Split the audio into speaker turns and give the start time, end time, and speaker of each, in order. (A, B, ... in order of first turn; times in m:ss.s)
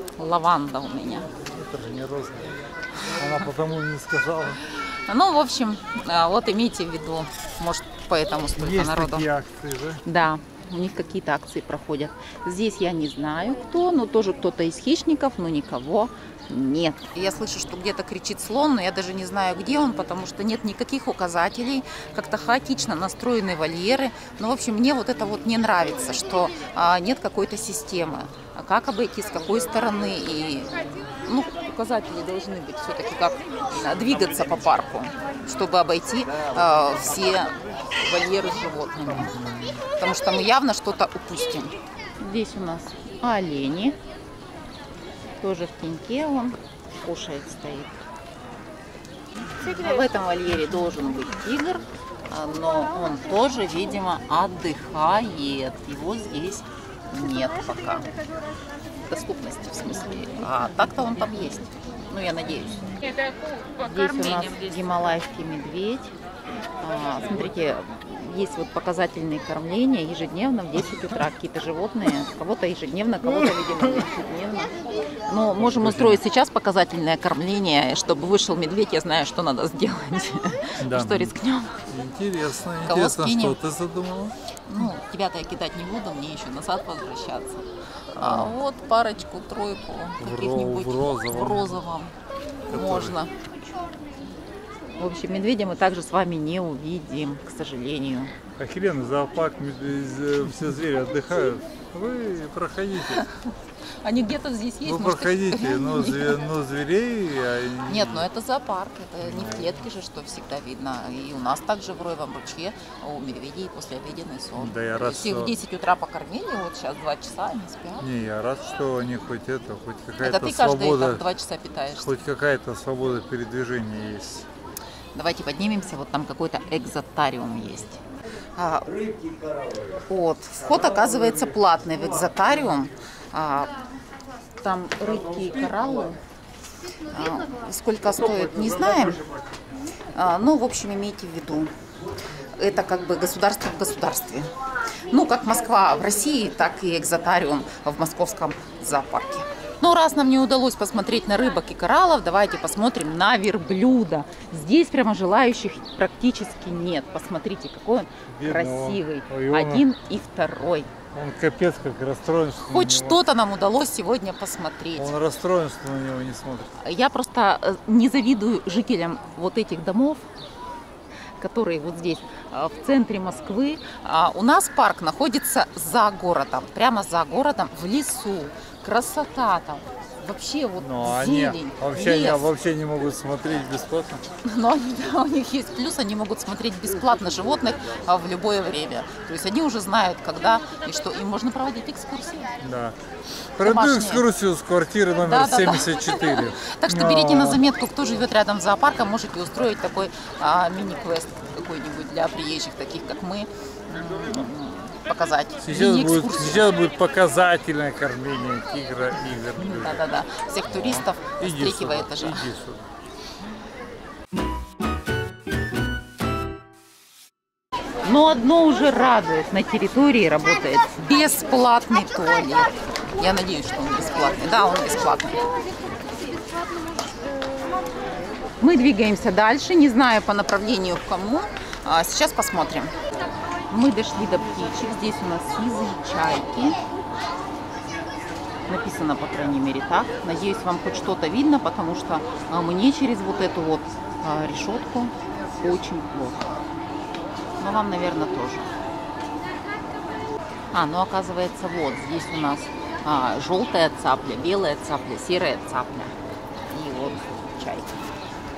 0:00.2-0:01.3 A
0:01.4-0:04.6 B
0:04.7-0:09.3 A
0:08.6-0:10.0 B
0:10.0-0:44.0 A
0:39.1-0:39.8 B
0:45.4-0:48.0 A
0:49.5-0:58.1 A
0:59.0-1:03.0 A
1:03.7-1:06.1 A
1:06.8-1:14.7 A
1:15.3-1:21.8 A
1:15.6-1:16.2 B
1:20.8-1:21.4 B
1:21.9-1:24.4 B
1:22.8-1:23.6 A
1:24.7-1:32.1 A
1:28.2-1:28.6 B
1:30.2-1:31.8 B
1:32.7-1:33.2 B
1:32.7-1:33.4 A
1:35.0-1:38.3 A
1:38.6-1:43.2 B
1:43.1-1:43.5 A
1:44.0-1:46.4 A
1:44.8-1:48.3 B
1:47.9-1:58.1 A
1:49.2-1:49.9 B
1:54.6-1:55.6 B
1:58.0-2:01.3 B
2:00.2-2:02.1 A
2:01.9-2:04.5 B
2:05.2-2:08.0 A
2:08.6-2:09.0 A
2:10.1-2:13.7 A
2:14.6-2:16.2 A
2:17.1-2:19.2 A
2:20.2-2:21.7 A
2:22.6-2:24.5 A
2:25.1-2:40.9 A
2:38.3-2:39.9 B
2:41.1-2:43.2 B
2:42.7-2:45.1 A
2:45.0-2:46.8 B
2:46.8-2:50.3 A
2:51.4-3:02.5 A
3:00.8-3:04.2 B
3:04.4-3:12.5 A
3:12.6-3:13.0 B
3:13.6-3:17.6 B
3:13.6-3:14.2 A
3:15.2-3:26.7 A
3:25.6-3:30.1 B
3:29.6-3:32.5 A
3:30.7-3:32.9 B
3:38.0-3:45.5 A
3:48.6-3:52.9 A
3:53.7-3:56.8 A
3:58.7-4:06.5 A
4:07.6-4:08.7 A
4:10.7-4:16.2 A
4:16.7-4:18.0 A